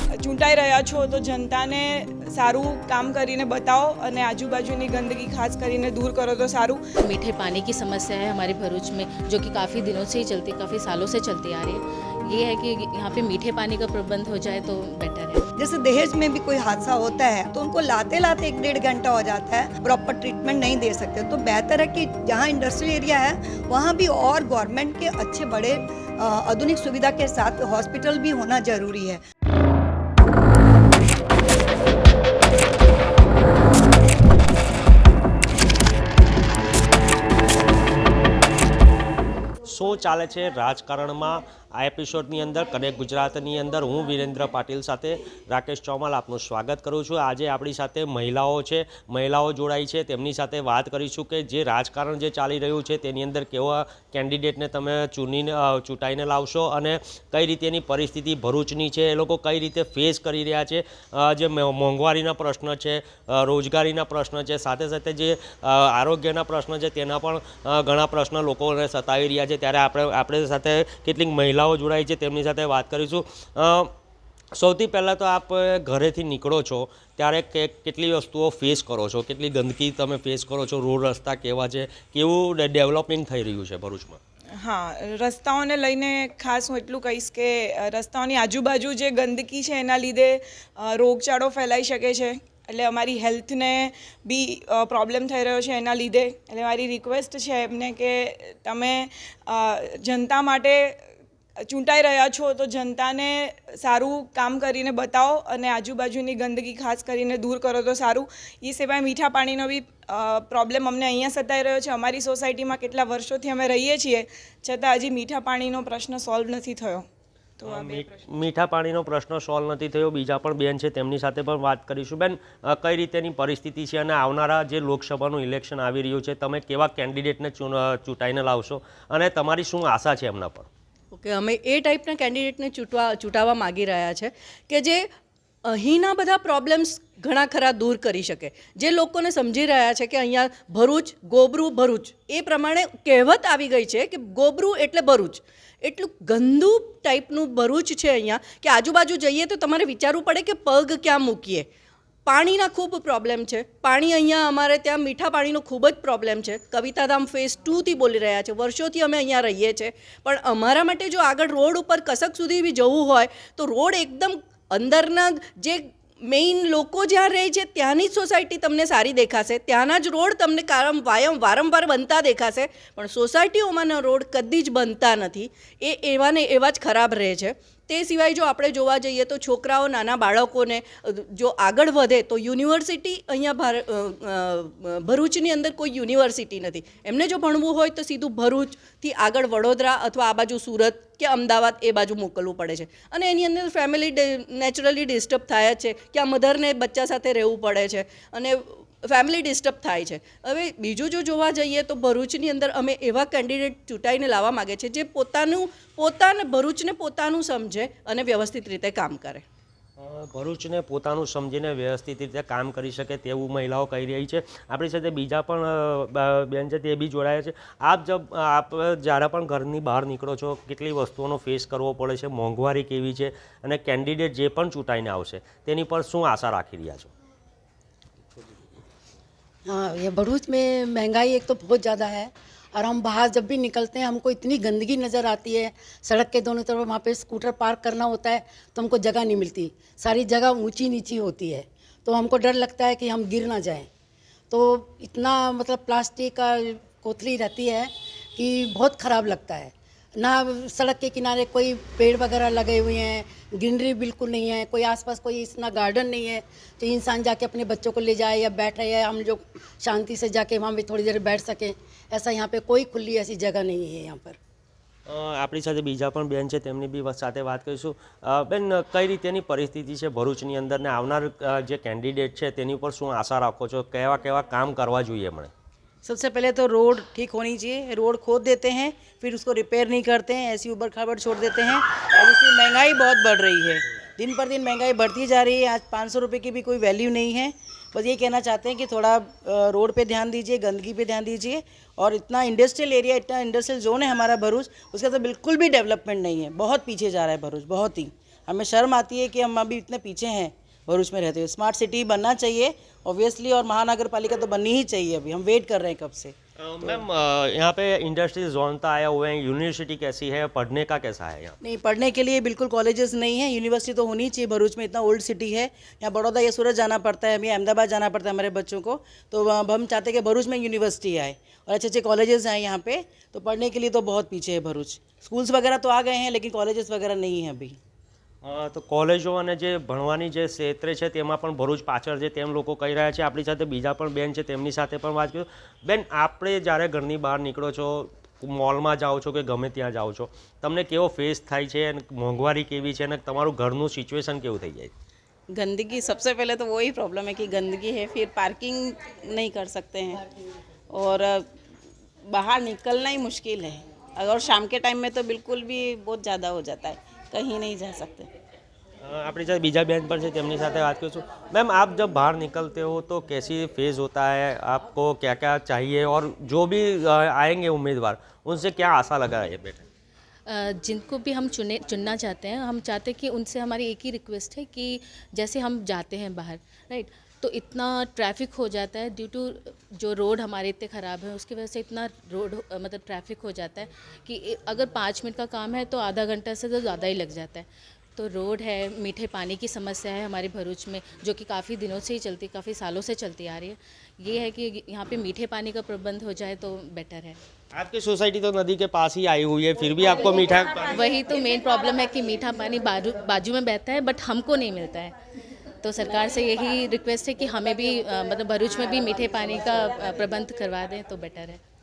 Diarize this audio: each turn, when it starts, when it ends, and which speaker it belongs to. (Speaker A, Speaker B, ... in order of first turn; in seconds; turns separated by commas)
Speaker A: 0.2-6.8, Speaker B: 7.0-15.4, Speaker C: 15.6-29.2, Speaker D: 39.6-73.9, Speaker D: 74.5-84.2, Speaker A: 84.6-101.0, Speaker A: 101.6-117.0, Speaker D: 117.6-130.7, Speaker A: 117.6-118.1, Speaker E: 131.1-135.1, Speaker E: 135.6-151.7, Speaker E: 152.2-209.4, Speaker D: 210.0-227.1, Speaker F: 229.7-243.9, Speaker F: 244.5-264.4, Speaker D: 265.1-275.5, Speaker G: 276.0-306.3, Speaker D: 306.6-311.6, Speaker G: 311.6-327.8, Speaker D: 328.4-344.9, Speaker H: 345.5-350.2, Speaker H: 350.9-351.4, Speaker H: 352.3-358.3, Speaker D: 359.0-369.8, Speaker B: 370.5-397.4, Speaker D: 397.7-401.0, Speaker B: 400.9-405.1, Speaker B: 405.8-411.6